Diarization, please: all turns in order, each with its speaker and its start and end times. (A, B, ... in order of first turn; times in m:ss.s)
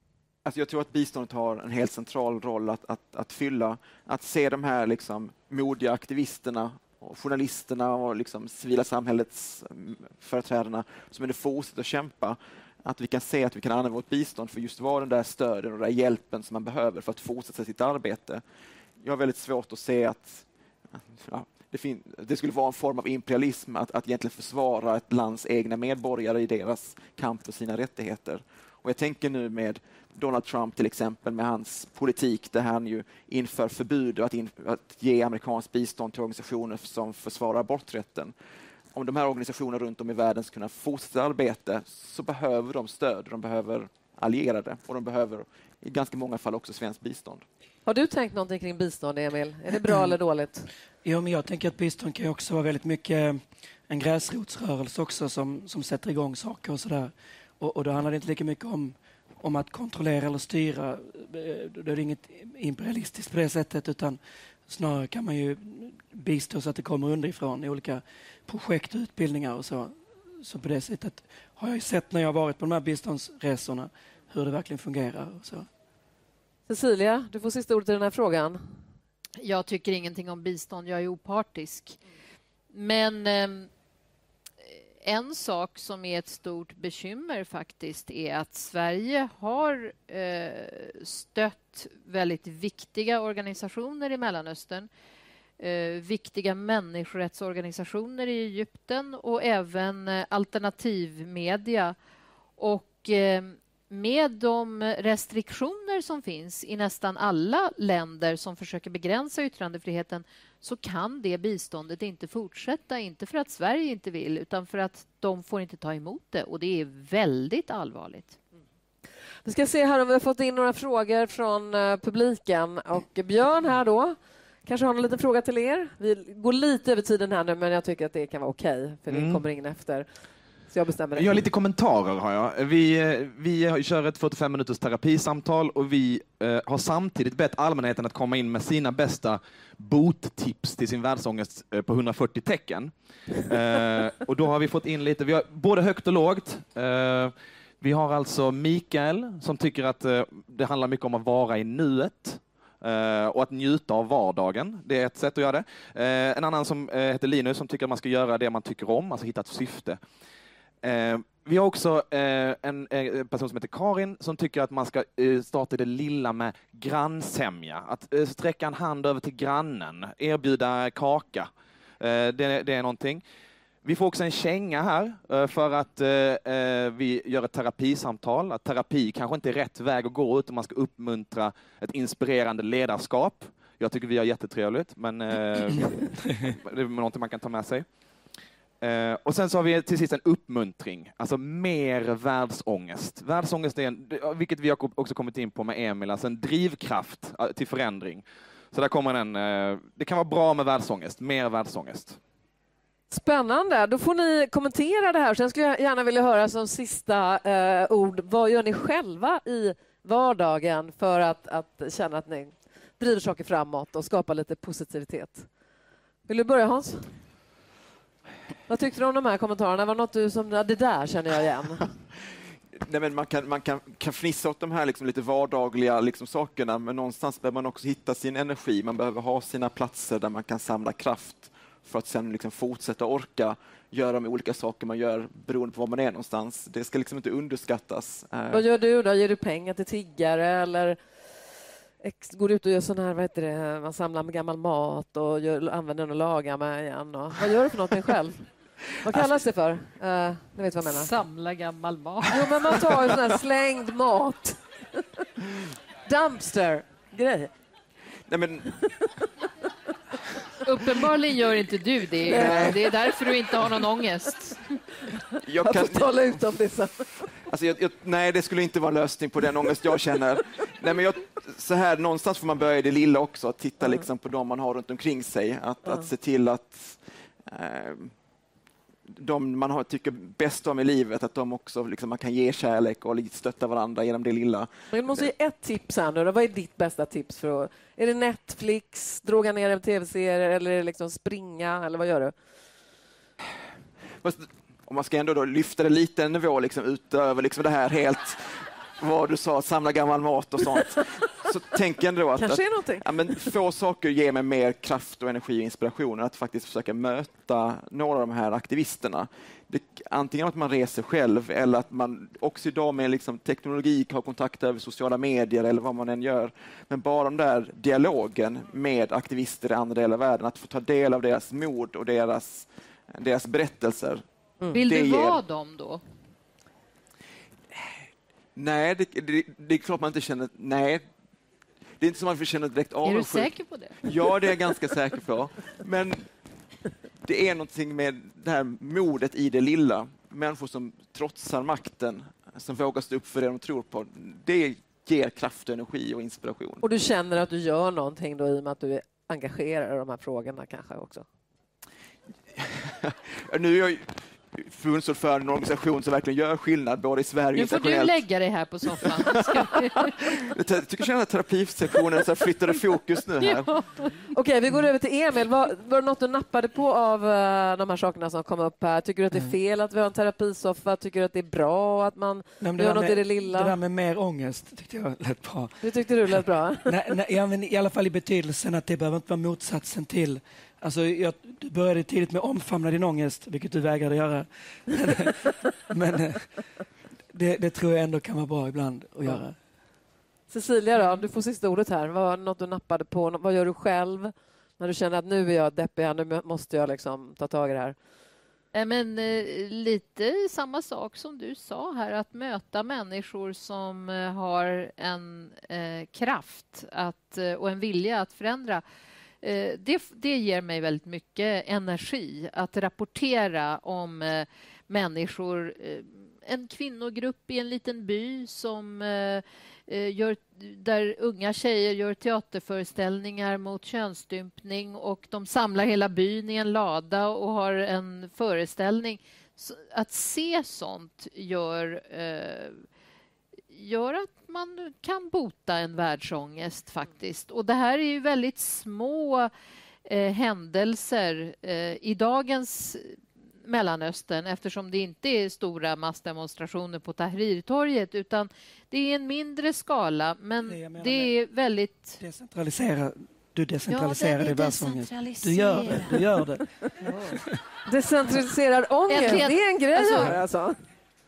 0:00.4-0:18.4 A
0:19.0-0:38.3 A
0:38.9-0:47.4 A
0:47.8-0:50.7 B
0:51.0-1:15.7 C
1:16.7-1:18.6 B
1:19.4-1:22.0 D
1:22.7-1:23.7 D
1:25.0-1:34.9 D
1:35.6-1:42.0 D
1:42.6-1:58.4 D
1:59.4-2:10.1 B
2:09.1-2:09.4 E
2:10.7-2:11.4 B
2:11.1-2:22.9 E
2:23.4-2:40.0 E
2:40.8-2:53.2 E
2:53.8-3:07.8 E
3:08.8-3:22.2 E
3:23.1-3:35.5 B
3:36.3-3:37.1 B
3:38.7-3:41.9 B
3:42.8-3:58.6 A
3:58.5-4:01.0 B
4:02.0-4:08.5 B
4:09.0-4:11.1 B
4:10.8-4:12.8 D
4:12.3-4:15.0 B
4:16.0-4:17.5 B
4:18.3-4:18.8 A
4:20.6-4:24.7 D
4:22.2-4:23.8 B
4:22.3-4:22.8 A
4:25.1-4:27.3 B
4:25.4-4:26.4 A
4:27.4-4:38.1 A
4:39.1-4:45.3 A
4:44.9-4:52.3 B
4:54.2-5:24.2 A
5:02.3-5:03.3 B
5:24.7-5:26.0 D
5:24.8-5:25.4 A
5:28.6-5:31.0 A
5:32.0-5:33.5 A
5:33.0-5:34.1 D
5:34.0-5:36.3 A
5:37.2-5:46.8 A
5:46.8-5:51.2 B
5:52.5-5:58.2 A
5:57.5-6:00.4 D
5:59.0-5:59.7 A
6:00.2-6:03.7 A
6:03.5-6:04.1 D
6:04.3-6:13.7 B
6:12.6-6:15.7 C
6:15.8-6:17.0 B
6:16.8-6:26.5 C
6:27.3-6:29.6 C
6:30.5-6:38.0 B
6:38.7-6:48.8 D
6:49.4-7:12.8 D
7:13.7-7:19.5 D
7:20.0-7:32.2 D
7:30.6-7:31.3 C
7:32.2-7:36.7 C
7:33.9-7:36.2 D
7:37.0-7:37.4 D
7:37.2-7:37.6 C
7:37.9-7:40.8 B
7:39.1-7:40.3 D